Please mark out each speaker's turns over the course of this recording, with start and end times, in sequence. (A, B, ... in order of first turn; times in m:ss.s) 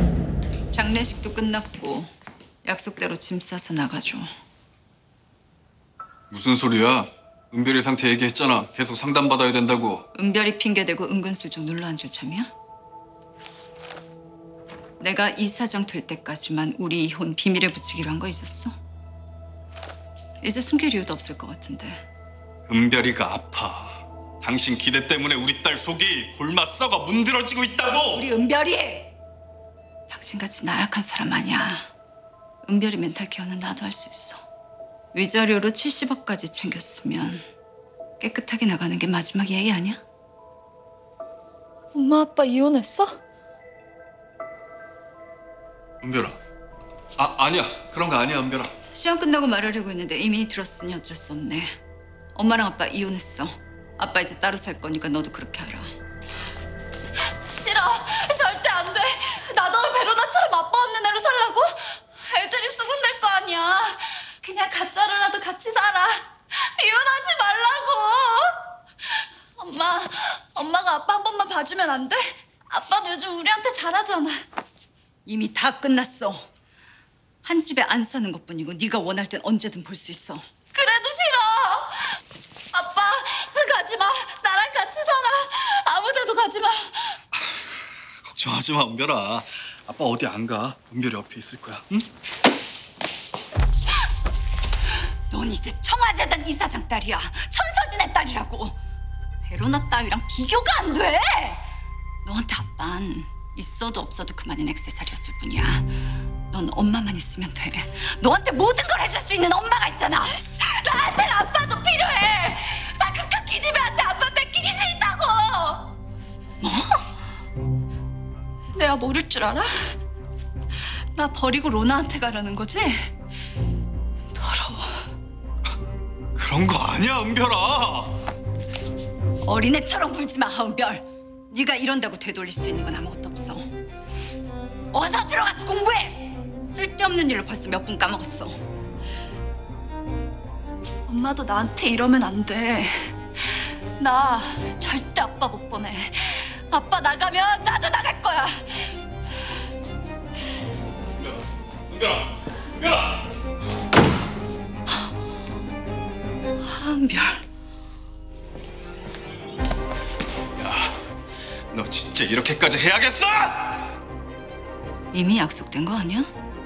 0:00.7-0:02.1 A
0:02.6-0:04.3 A
0:06.3-0:10.0 B
0:10.1-0:12.5 A
0:15.0-0:18.7 A
0:20.4-0:22.0 A
0:22.7-0:28.2 B
0:28.1-0:29.1 A
0:30.1-0:31.8 A
0:32.6-0:34.4 A
0:35.1-0:37.4 A
0:38.2-0:40.0 A
0:41.9-0:43.2 C
0:46.0-0:46.4 B
0:47.2-0:48.7 B
0:48.9-0:51.7 A
0:52.3-0:55.9 A
0:57.4-1:08.6 C
1:09.6-1:14.4 C
1:15.2-1:16.5 A
1:17.4-1:20.4 A
1:20.7-1:22.2 C
1:22.7-1:27.2 C
1:28.2-1:32.1 B
1:35.3-1:38.8 A
1:39.4-1:41.6 A
1:42.2-1:45.9 A
1:46.5-1:50.4 A
1:50.6-1:55.9 C
1:56.6-1:57.0 A
1:58.7-1:59.9 C
2:01.1-2:03.1 C
2:04.3-2:05.1 C
2:06.4-2:08.1 B
2:09.4-2:13.6 A
2:14.9-2:18.6 A
2:21.1-2:28.9 C
2:31.9-2:32.2 B
2:32.8-2:33.2 B
2:36.6-2:37.4 A
2:40.6-2:41.0 B
2:41.7-2:43.7 B
2:45.1-2:46.3 A